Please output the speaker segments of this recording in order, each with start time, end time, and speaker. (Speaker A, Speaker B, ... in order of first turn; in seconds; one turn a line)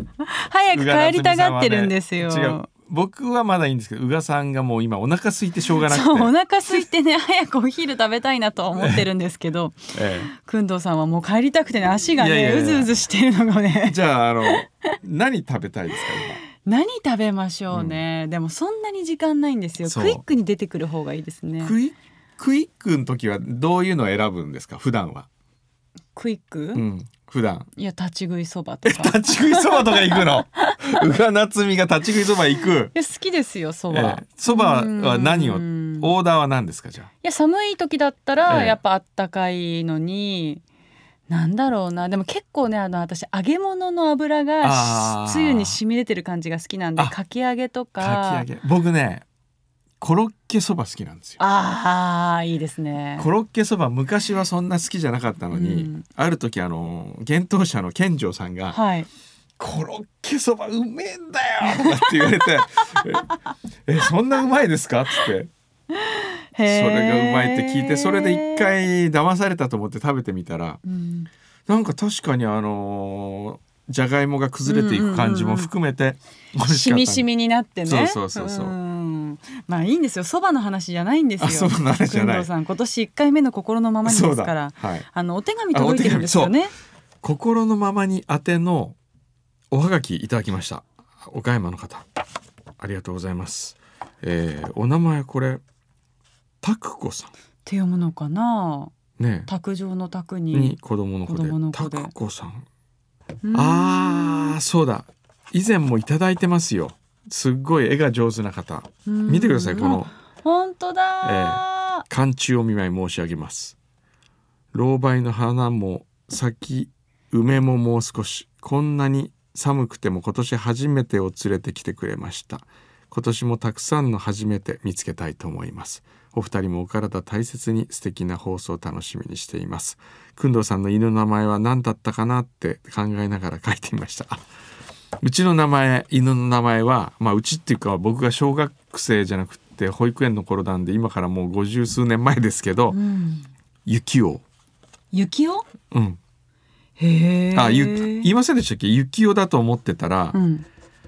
Speaker A: 0.3-2.7
Speaker B: 0.7-6.3
Speaker A: 5.7-14.6
Speaker B: 8.8-9.1
Speaker B: 9.9-10.3
Speaker B: 12.2-12.9
Speaker B: 13.8-16.4
Speaker A: 16.6-21.8
Speaker B: 17.7-18.0
Speaker B: 19.8-20.2
Speaker B: 21.6-25.3
Speaker A: 26.1-26.8
Speaker B: 26.7-27.7
Speaker A: 27.8-30.8
Speaker B: 28.8-32.9
Speaker A: 32.9-36.1
Speaker B: 33.9-37.1
Speaker A: 37.2-40.6
Speaker B: 38.5-38.8
Speaker A: 41.3-48.5
Speaker B: 44.6-45.8
Speaker B: 48.0-49.2
Speaker B: 50.0-51.4
Speaker A: 51.4-53.3
Speaker B: 53.2-58.8
Speaker A: 55.5-56.0
Speaker A: 58.7-59.1
Speaker B: 59.6-63.3
Speaker A: 61.7-62.4
Speaker B: 63.9-65.5
Speaker A: 65.9-68.8
Speaker B: 66.6-70.8
Speaker A: 70.8-71.3
Speaker B: 71.7-77.3
Speaker A: 74.7-75.7
Speaker A: 76.6-86.7
Speaker B: 77.8-78.7
Speaker B: 81.4-82.5
Speaker B: 84.0-85.0
Speaker B: 85.7-86.6
Speaker B: 87.2-89.0
Speaker B: 89.7-92.0
Speaker B: 92.8-95.6
Speaker B: 96.6-97.3
Speaker A: 97.6-98.9
Speaker B: 99.2-99.5
Speaker A: 99.5-102.1
Speaker B: 100.5-102.7
Speaker A: 103.4-104.6
Speaker B: 103.5-110.1
Speaker A: 109.0-112.0
Speaker B: 111.2-113.8
Speaker B: 114.7-134.4
Speaker B: 135.2-143.0
Speaker A: 142.9-143.5
Speaker B: 143.8-144.4
Speaker A: 145.1-145.7
Speaker B: 145.9-146.2
Speaker A: 147.0-148.3
Speaker B: 147.5-150.4
Speaker A: 150.3-150.6